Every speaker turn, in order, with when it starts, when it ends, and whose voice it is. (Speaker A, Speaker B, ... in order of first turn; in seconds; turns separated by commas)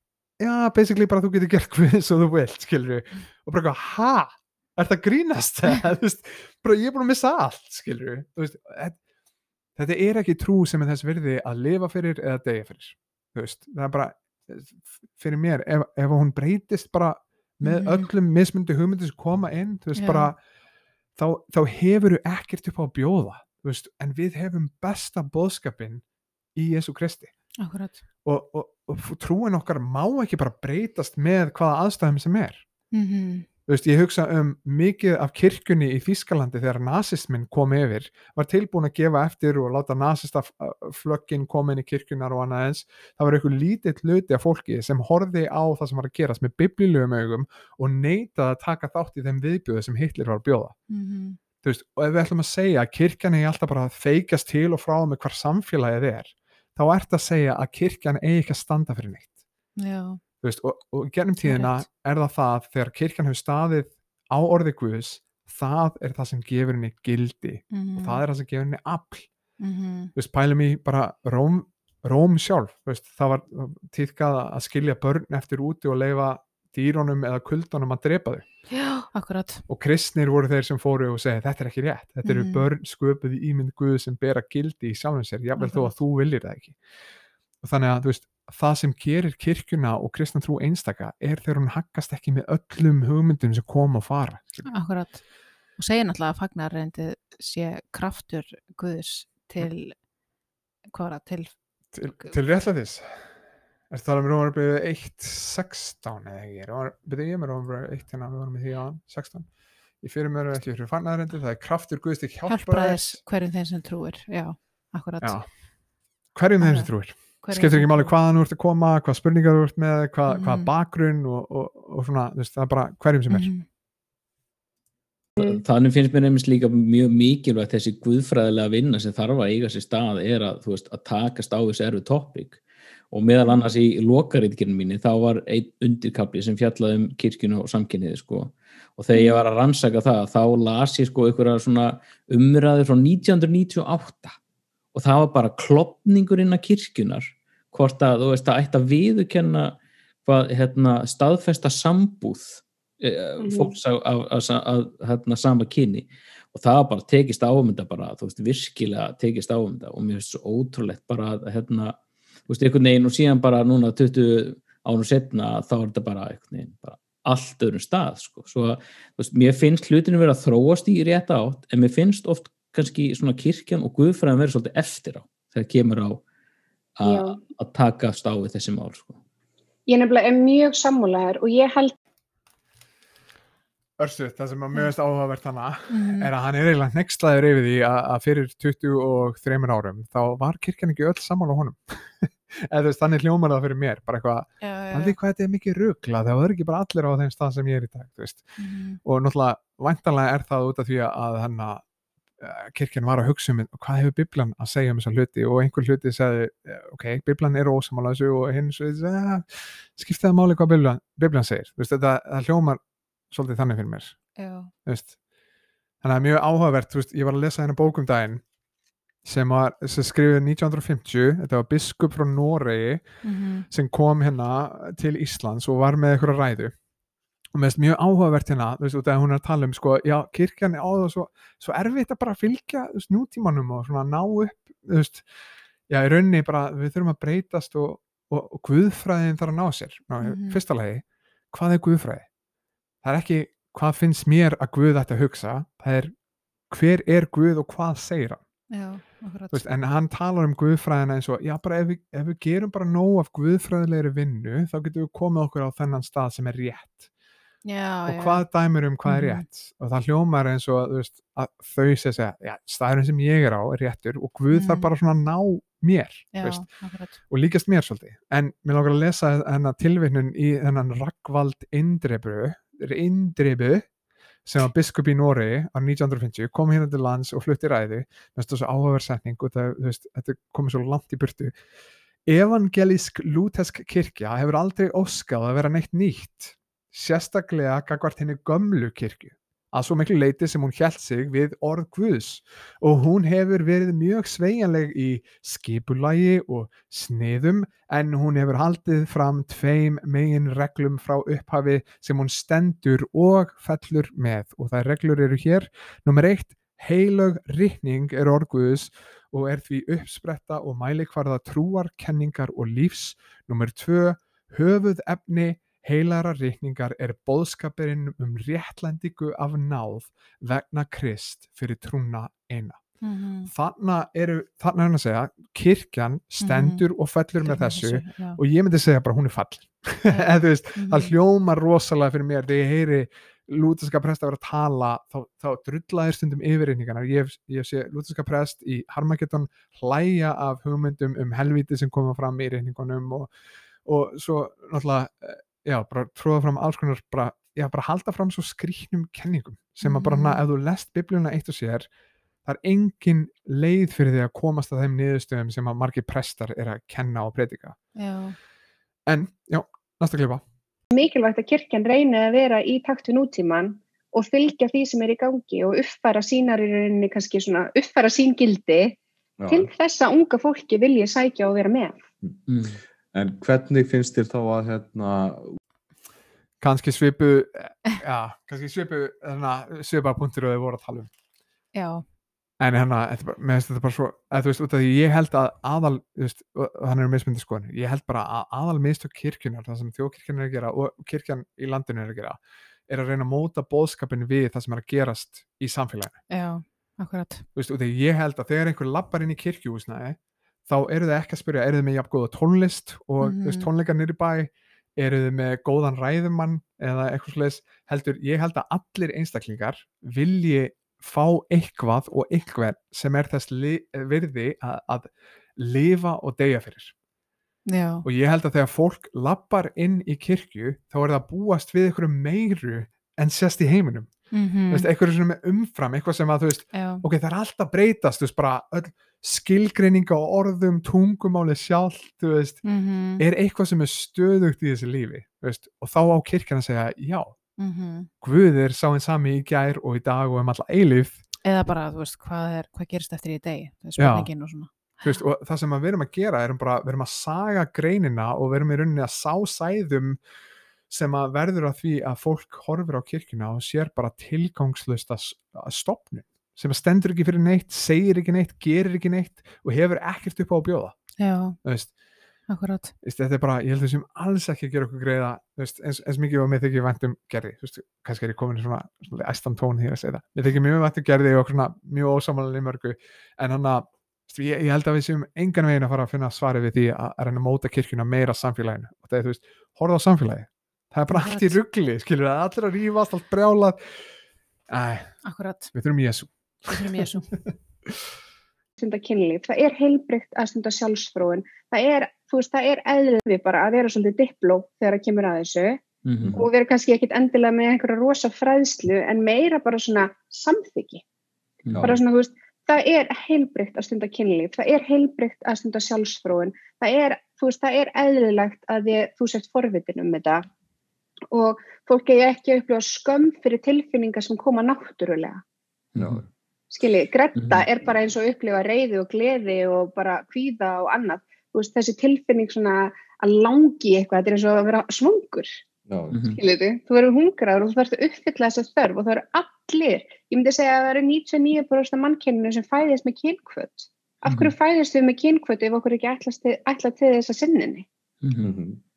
Speaker A: 0.4-9.0, Speaker A: 9.8-20.4, Speaker B: 17.6-18.1, Speaker B: 19.9-20.3, Speaker A: 21.1-26.0, Speaker A: 26.5-27.3, Speaker B: 27.6-28.0, Speaker A: 28.2-32.6, Speaker B: 32.9-33.5, Speaker A: 33.7-50.8, Speaker B: 50.9-51.4, Speaker A: 51.6-59.4, Speaker B: 59.8-60.2, Speaker A: 60.4-69.3, Speaker B: 61.4-61.8, Speaker B: 67.7-68.2, Speaker B: 69.6-70.1, Speaker A: 70.2-78.4, Speaker B: 78.7-79.6, Speaker A: 79.7-86.8, Speaker B: 82.2-82.7, Speaker B: 85.6-86.0, Speaker A: 87.6-94.7, Speaker B: 94.7-95.2, Speaker B: 95.8-100.0, Speaker B: 100.9-101.5, Speaker A: 101.9-103.2, Speaker A: 103.9-109.5, Speaker A: 110.0-113.2, Speaker B: 112.5-115.4, Speaker A: 115.2-115.5, Speaker A: 116.3-123.5, Speaker B: 116.6-116.9, Speaker B: 117.4-118.1, Speaker B: 120.3-120.7, Speaker B: 123.3-123.6, Speaker C: 125.4-144.4, Speaker C: 144.9-176.2, Speaker D: 153.4-153.7, Speaker C: 177.0-179.2, Speaker D: 177.0-177.4, Speaker D: 179.9-181.9, Speaker A: 184.0-198.4, Speaker B: 185.9-186.3, Speaker B: 194.6-195.2, Speaker B: 198.6-199.0, Speaker A: 199.0-201.8, Speaker A: 202.4-214.2, Speaker B: 214.4-214.7, Speaker A: 214.8-215.1, Speaker A: 216.0-218.4, Speaker A: 219.2-223.0, Speaker B: 223.2-223.7, Speaker A: 223.7-226.7, Speaker A: 227.5-235.2, Speaker A: 235.9-242.3, Speaker B: 240.2-240.6, Speaker A: 243.0-246.1, Speaker A: 246.7-248.4, Speaker B: 248.7-249.6, Speaker A: 249.5-257.1, Speaker B: 257.6-258.4, Speaker A: 258.1-266.6, Speaker B: 259.1-259.4, Speaker B: 264.5-264.9, Speaker B: 266.3-267.2, Speaker A: 267.3-273.9, Speaker A: 274.4-281.5, Speaker A: 282.2-322.8, Speaker B: 323.0-323.5, Speaker A: 323.5-343.3, Speaker B: 326.4-326.8, Speaker B: 327.4-328.4, Speaker B: 330.1-331.1, Speaker A: 343.8-351.9, Speaker B: 349.8-350.4, Speaker A: 352.4-357.8, Speaker B: 357.9-358.4, Speaker A: 359.1-360.4, Speaker D: 360.9-369.0, Speaker E: 369.4-369.7, Speaker D: 369.5-372.0, Speaker C: 372.5-372.8, Speaker E: 373.1-375.5, Speaker A: 376.6-381.1, Speaker B: 381.7-382.0, Speaker A: 382.6-396.2, Speaker B: 396.3-397.4, Speaker A: 397.5-416.9, Speaker B: 403.2-403.7, Speaker B: 417.7-418.1, Speaker A: 418.0-424.1, Speaker B: 424.3-424.9, Speaker A: 424.7-432.6, Speaker B: 426.7-427.0, Speaker B: 432.6-433.2, Speaker A: 433.2-437.4, Speaker B: 437.6-438.1, Speaker A: 438.2-441.2, Speaker B: 441.4-445.1, Speaker A: 444.0-444.3, Speaker A: 445.0-450.2, Speaker A: 450.9-460.9, Speaker B: 461.2-461.6, Speaker A: 461.6-461.9, Speaker B: 462.5-462.9, Speaker A: 463.0-484.0, Speaker B: 481.1-481.6, Speaker A: 484.7-485.1, Speaker B: 485.2-485.7, Speaker A: 485.7-487.3, Speaker B: 486.7-487.3, Speaker D: 488.8-495.8, Speaker C: 496.0-496.4, Speaker D: 496.3-501.0, Speaker C: 501.7-502.0, Speaker D: 501.8-510.4, Speaker D: 511.3-515.4, Speaker C: 515.9-516.2, Speaker E: 516.0-516.2, Speaker D: 516.7-525.6, Speaker C: 517.4-517.6, Speaker E: 525.9-526.2, Speaker C: 526.1-526.4, Speaker D: 526.4-537.9, Speaker C: 534.3-534.5, Speaker C: 538.2-538.5, Speaker E: 538.4-538.8